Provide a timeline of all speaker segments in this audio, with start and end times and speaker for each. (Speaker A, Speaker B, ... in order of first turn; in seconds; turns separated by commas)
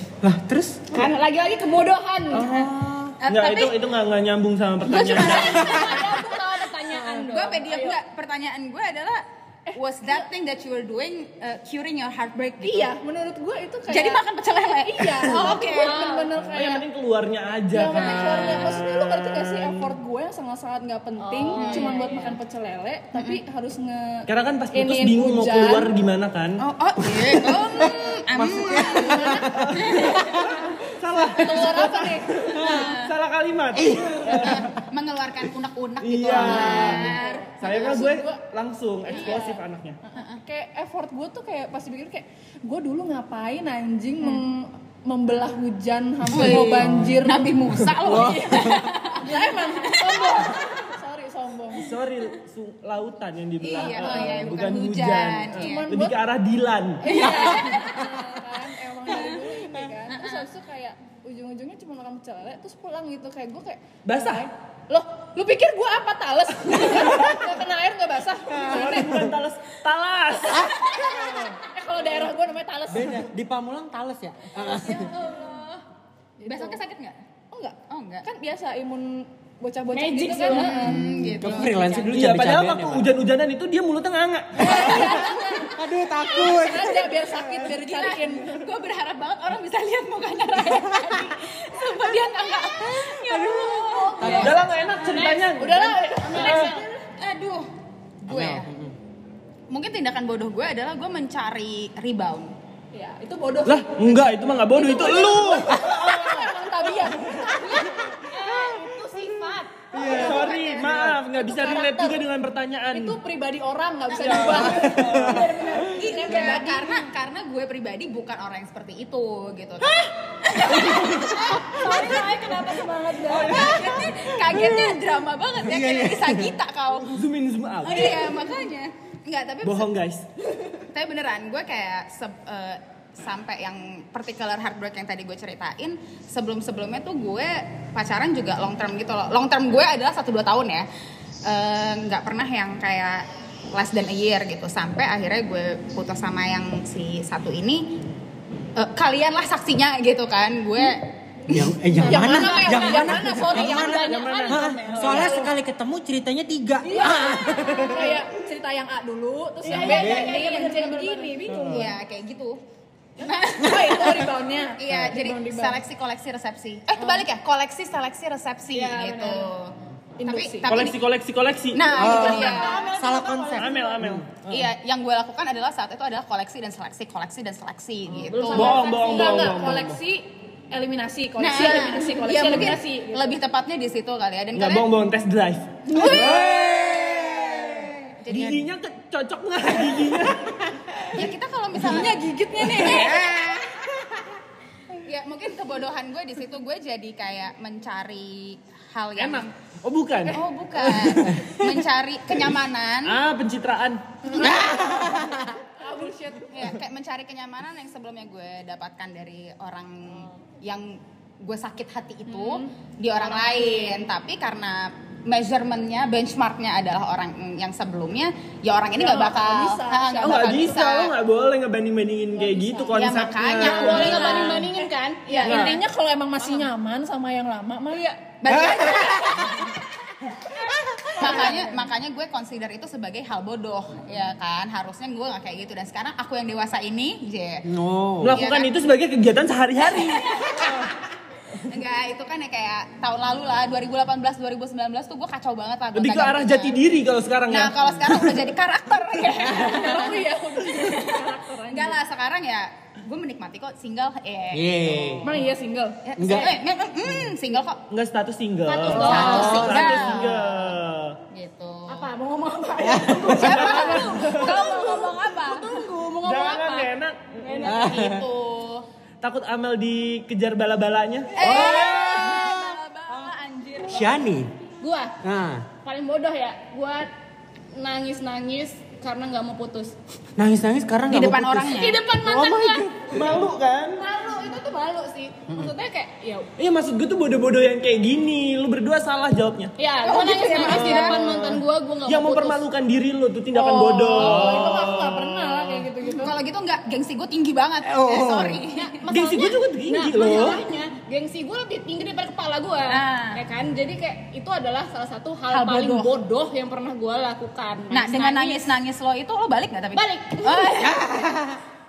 Speaker A: 0.2-1.0, Speaker B: 0.9-2.5, Speaker A: 2.3-3.1, Speaker C: 3.2-3.8, Speaker D: 3.3-5.7, Speaker C: 4.9-6.2, Speaker B: 5.2-8.0, Speaker C: 7.3-9.2, Speaker E: 9.7-10.3, Speaker C: 9.8-12.9, Speaker E: 12.6-14.2, Speaker C: 13.9-16.0, Speaker E: 14.8-16.9, Speaker B: 15.3-16.4, Speaker D: 16.5-19.9, Speaker E: 17.7-25.9, Speaker C: 18.0-18.8, Speaker B: 21.2-22.4, Speaker C: 21.5-21.9, Speaker C: 23.1-23.4, Speaker D: 24.3-26.6, Speaker C: 26.6-30.5, Speaker A: 27.5-30.6, Speaker E: 28.9-29.6, Speaker D: 29.4-30.0, Speaker D: 30.9-34.7, Speaker E: 31.3-32.9, Speaker C: 32.6-33.1, Speaker A: 33.7-34.7, Speaker C: 34.4-37.5, Speaker D: 36.0-40.0, Speaker E: 36.3-38.4, Speaker E: 39.0-47.6, Speaker C: 46.3-50.6, Speaker A: 48.0-48.9, Speaker E: 48.1-51.9, Speaker D: 51.8-57.2, Speaker E: 53.6-54.5, Speaker C: 53.6-55.9, Speaker E: 55.5-56.2, Speaker E: 57.0-69.3, Speaker C: 57.0-58.1, Speaker C: 59.1-60.5, Speaker D: 64.0-64.5, Speaker D: 66.9-67.4, Speaker D: 68.5-71.4, Speaker E: 70.9-73.2, Speaker A: 72.9-75.1, Speaker C: 74.6-75.8, Speaker E: 76.4-76.8, Speaker C: 76.5-77.2, Speaker E: 77.5-81.0, Speaker C: 77.9-78.2, Speaker B: 79.9-80.9, Speaker C: 80.5-82.2, Speaker A: 80.8-83.1, Speaker D: 82.1-85.1, Speaker E: 84.6-88.5, Speaker A: 84.8-87.7, Speaker C: 87.7-94.6, Speaker A: 91.0-91.2, Speaker A: 93.0-94.5, Speaker B: 93.9-96.9, Speaker D: 94.2-96.7, Speaker E: 95.5-96.8, Speaker C: 96.6-97.7, Speaker C: 98.2-98.7, Speaker A: 98.3-98.9, Speaker C: 99.7-102.5, Speaker E: 102.9-108.0, Speaker D: 103.6-106.5, Speaker D: 107.0-107.5, Speaker B: 107.6-110.9, Speaker E: 109.9-112.2, Speaker D: 109.9-113.2, Speaker C: 110.1-110.8, Speaker E: 112.9-117.0, Speaker D: 114.1-115.4, Speaker C: 114.1-114.9, Speaker B: 114.7-116.0, Speaker C: 115.9-122.1, Speaker D: 120.9-121.3, Speaker B: 121.2-123.8, Speaker D: 123.2-124.2, Speaker C: 123.3-127.2, Speaker A: 124.5-125.0, Speaker A: 125.6-126.5, Speaker D: 127.1-128.3, Speaker C: 127.8-129.9, Speaker D: 129.6-130.2, Speaker C: 130.8-140.9, Speaker C: 141.4-147.9, Speaker C: 148.8-151.7, Speaker A: 151.5-158.2, Speaker E: 152.1-154.4, Speaker B: 152.1-155.4, Speaker D: 154.0-155.5, Speaker E: 155.1-155.5, Speaker E: 156.8-161.9, Speaker B: 159.6-161.6, Speaker A: 159.7-160.4, Speaker A: 161.5-161.9, Speaker C: 161.5-162.6, Speaker C: 163.2-171.0, Speaker E: 163.2-165.8, Speaker B: 168.7-169.5, Speaker E: 170.2-170.9, Speaker D: 170.7-172.0, Speaker C: 171.7-172.9, Speaker A: 171.9-174.2, Speaker B: 172.0-174.0, Speaker D: 173.6-174.7, Speaker C: 174.5-179.2, Speaker B: 178.1-179.5, Speaker D: 178.5-180.0, Speaker E: 179.1-183.4, Speaker C: 181.4-184.9, Speaker D: 184.5-190.6, Speaker C: 185.9-186.6, Speaker A: 186.0-188.4, Speaker C: 188.2-188.7, Speaker A: 190.8-191.2, Speaker C: 191.1-193.6, Speaker E: 191.9-193.2, Speaker A: 192.9-194.2, Speaker C: 194.9-199.5, Speaker D: 199.2-200.4, Speaker C: 200.3-203.2, Speaker D: 203.0-204.0, Speaker E: 204.2-206.7, Speaker A: 204.4-205.5, Speaker C: 206.5-221.1, Speaker B: 212.3-212.7, Speaker B: 213.3-213.9, Speaker E: 218.9-220.9, Speaker D: 220.2-224.3, Speaker E: 222.4-223.0, Speaker C: 222.9-224.7, Speaker B: 223.6-225.8, Speaker E: 223.6-228.4, Speaker D: 225.4-225.8, Speaker C: 228.4-229.7, Speaker A: 228.5-229.3, Speaker C: 231.2-237.6, Speaker E: 231.2-231.8, Speaker A: 237.6-238.4, Speaker D: 238.2-240.9, Speaker C: 238.3-238.8, Speaker C: 239.9-240.9, Speaker C: 241.7-246.8, Speaker D: 245.9-248.4, Speaker C: 247.5-255.3, Speaker A: 249.5-249.9, Speaker E: 249.5-252.0, Speaker A: 254.5-255.4, Speaker E: 255.2-256.0, Speaker C: 256.0-257.8, Speaker A: 256.1-256.6, Speaker B: 256.2-256.6, Speaker D: 257.9-261.2, Speaker B: 258.6-260.2, Speaker C: 258.9-260.6, Speaker A: 259.1-259.9, Speaker C: 261.3-262.1, Speaker B: 261.9-266.9, Speaker A: 262.8-263.6, Speaker C: 263.2-265.7, Speaker D: 263.4-264.6, Speaker E: 263.5-264.8, Speaker D: 266.2-267.7, Speaker B: 267.4-268.1, Speaker A: 267.6-268.2, Speaker C: 267.6-268.9, Speaker D: 269.2-271.4, Speaker C: 271.3-274.2, Speaker A: 271.4-272.7, Speaker B: 271.5-271.9, Speaker A: 273.8-274.5, Speaker B: 274.8-275.1, Speaker A: 275.2-275.6, Speaker B: 275.8-277.1, Speaker B: 277.7-279.9, Speaker A: 280.4-283.1, Speaker C: 281.1-282.0, Speaker B: 281.7-283.0, Speaker D: 282.9-284.0, Speaker B: 284.0-286.5, Speaker D: 286.6-289.7, Speaker B: 289.8-292.6, Speaker C: 290.0-291.2, Speaker D: 290.6-295.8, Speaker E: 293.5-296.3, Speaker B: 294.1-294.5, Speaker C: 296.1-298.9, Speaker A: 297.9-298.6, Speaker B: 298.7-308.7, Speaker D: 299.1-300.6, Speaker C: 300.3-300.5, Speaker C: 302.9-303.4, Speaker C: 305.5-306.2, Speaker C: 307.9-311.0, Speaker B: 309.9-311.0, Speaker A: 310.8-311.6